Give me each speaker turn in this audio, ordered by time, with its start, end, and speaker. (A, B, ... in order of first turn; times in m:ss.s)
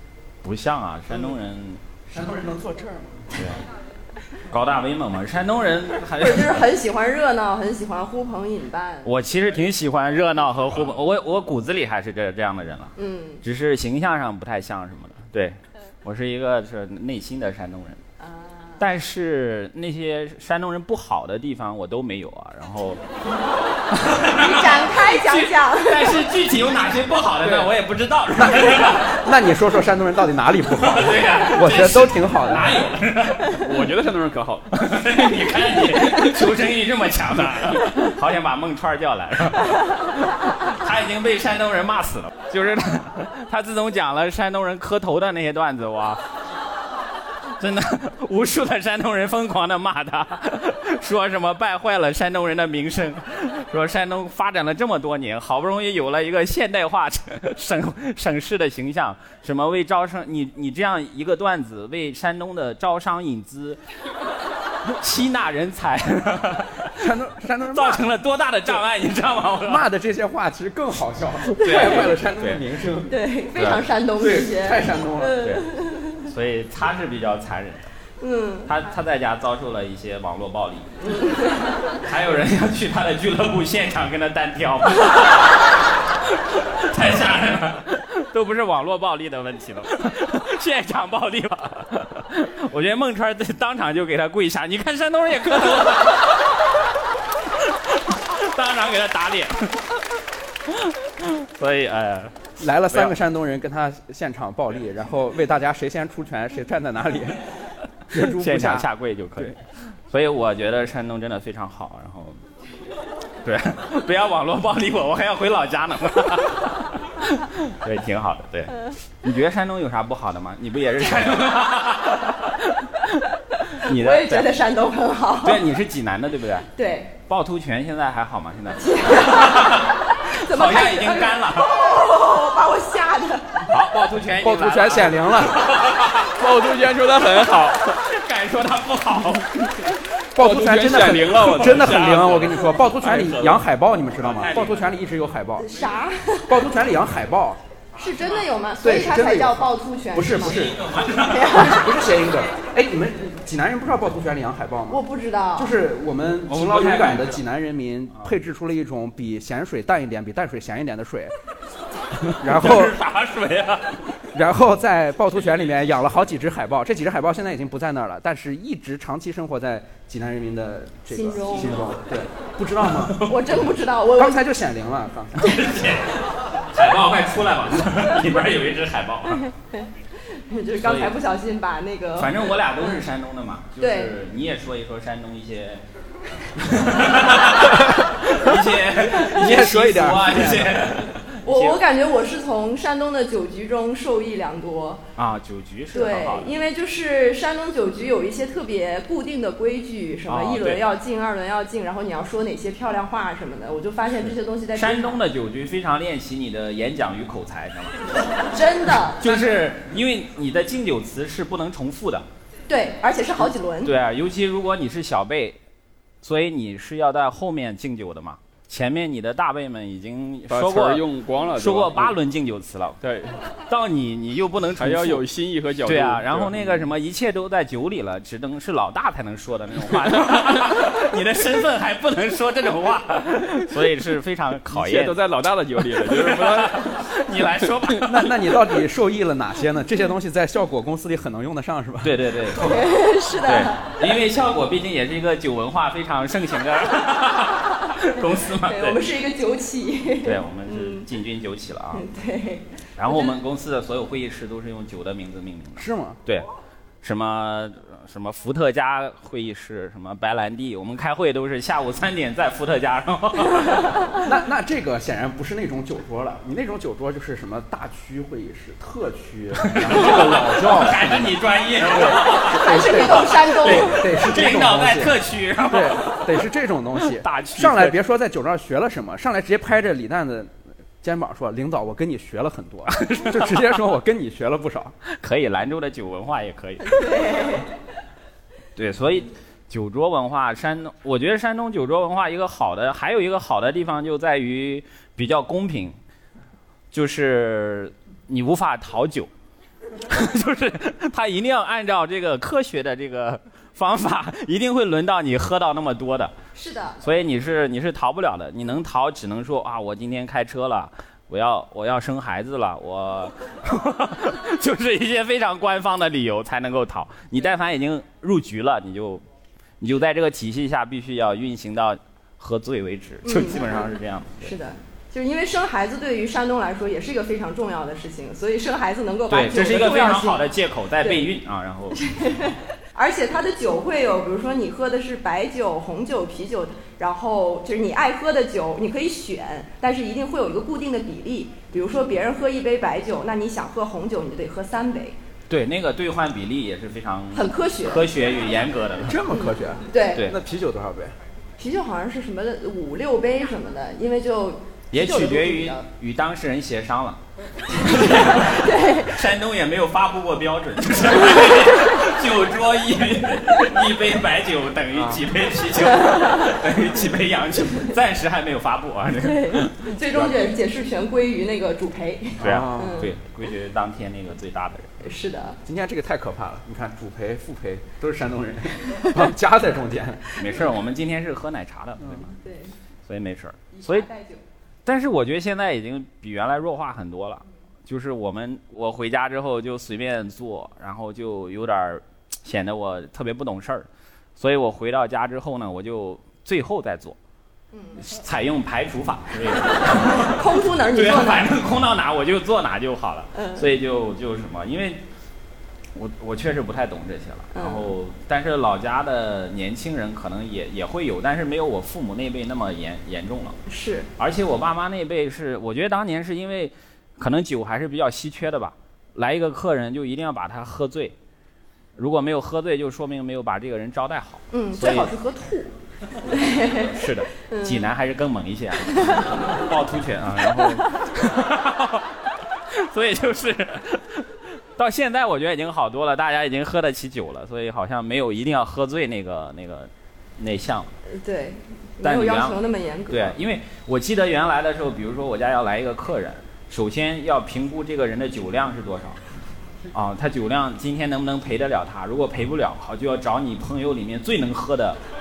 0:00.4-0:01.8 A
0:02.1-0:03.6 B
0:03.3-0:03.6 A
0:04.5-0:06.7 A
0:06.2-0:09.1 C
0:09.0-0:18.0 A
0:13.0-0:13.4 C
0:18.2-0:18.8 C
0:18.8-0:23.0 A
0:23.9-0:29.2 A
0:24.4-0:26.2 C
0:27.4-0:27.7 D
0:28.4-0:32.8 B
0:30.8-0:33.6 A
0:33.4-0:34.7 D
0:34.7-0:46.2 A
0:47.6-1:03.8 A
1:05.0-1:07.1 A
1:07.0-1:08.1 B
1:07.7-1:09.9 A
1:09.6-1:13.1 B
1:11.6-1:12.6 A
1:11.6-1:12.1 C
1:13.1-1:16.2 C
1:13.6-1:13.9 A
1:14.2-1:15.4 B
1:16.2-1:17.9 A
1:18.2-1:18.8 C
1:18.7-1:21.2 A
1:21.0-1:21.8 C
1:22.0-1:36.9 A
1:37.6-1:40.0 A
1:40.7-1:43.2 A
1:42.6-1:47.4 B
1:48.1-1:49.6 B
1:48.1-1:52.4 A
1:53.4-2:04.5 A
2:03.8-2:05.6 C
2:05.4-2:06.7 A
2:06.8-2:07.2 C
2:07.3-2:11.8 A
2:08.8-2:13.7 C
2:13.7-2:16.4 A
2:14.4-2:15.7 B
2:16.3-2:18.0 D
2:17.9-2:19.8 A
2:20.4-2:25.8 B
2:20.4-2:22.7 D
2:23.0-2:23.6 A
2:24.2-2:25.0 A
2:25.6-2:26.6 C
2:26.5-2:27.6 B
2:28.0-2:31.9 C
2:28.8-2:30.9 B
2:30.3-2:31.9 A
2:31.5-2:35.0 B
2:34.9-2:35.8 C
2:35.6-2:41.3 B
2:36.5-2:37.4 A
2:42.3-2:44.3 A
2:42.4-2:43.0 B
2:44.3-2:53.3 B
2:51.1-2:51.9 C
2:51.6-2:51.9 A
2:52.8-2:53.5 A
2:53.2-2:54.4 C
2:54.2-2:55.6 B
2:55.4-2:59.5 A
2:59.8-3:03.0 C
3:00.8-3:01.2 A
3:02.2-3:05.8 A
3:03.8-3:04.2 C
3:06.6-3:11.8 A
3:07.8-3:11.0 B
3:11.4-3:15.0 C
3:15.2-3:16.6 A
3:15.9-3:25.2 C
3:20.3-3:20.8 A
3:24.8-3:28.1 A
3:28.5-3:29.3 C
3:29.2-3:32.3 A
3:32.7-3:34.0 C
3:33.8-3:35.6 A
3:36.2-3:43.0 A
3:40.5-3:42.2 D
3:43.0-3:43.4 D
3:43.7-3:45.2 A
3:44.8-3:46.9 D
3:45.8-3:55.2 A
3:54.7-3:57.0 D
3:55.9-3:58.3 A
3:58.0-4:02.4 B
4:02.0-4:09.0 A
4:02.6-4:04.0 C
4:08.6-4:11.1 C
4:10.2-4:12.1 A
4:11.9-4:13.4 C
4:13.0-4:16.5 A
4:15.8-4:16.2 B
4:17.0-4:24.2 A
4:24.2-4:35.2 B
4:29.6-4:36.5 A
4:32.3-4:34.1 C
4:35.7-4:44.9 B
4:37.0-4:38.0 A
4:42.9-4:43.8 A
4:45.1-4:47.2 A
4:46.8-4:47.7 C
4:48.8-4:56.0 A
4:56.9-4:59.3 A
5:00.1-5:06.3 A
5:06.6-5:07.0 C
5:07.0-5:19.2 A
5:19.8-5:24.5 A
5:23.2-5:30.4 C
5:29.3-5:32.2 A
5:31.0-5:31.3 C
5:32.0-5:45.2 C
5:45.5-5:49.2 A
5:47.3-5:48.1 C
5:49.0-5:51.1 B
5:49.3-5:50.3 C
5:51.6-5:55.8 C
5:54.9-6:10.3 A
5:57.8-5:59.2 C
6:05.9-6:06.5 C
6:09.2-6:13.1 C
6:12.4-6:13.1 B
6:12.4-6:15.0 A
6:15.0-6:15.6 C
6:15.6-6:20.5 B
6:20.4-6:22.3 A
6:22.4-6:22.7 C
6:23.1-6:24.1 A
6:23.7-6:24.4 C
6:24.9-6:37.2 A
6:37.7-6:38.0 C
6:38.0-6:45.0 A
6:39.9-6:41.5 C
6:43.4-6:43.7 C
6:46.0-6:53.6 A
6:47.5-6:47.9 C
6:53.7-6:54.1 C
6:54.2-7:01.2 A
7:02.0-7:05.1 A
7:04.5-7:07.9 C
7:06.6-7:20.9 A
7:09.0-7:09.6 C
7:21.1-7:23.4 C
7:22.0-7:29.2 A
7:29.9-7:35.0 A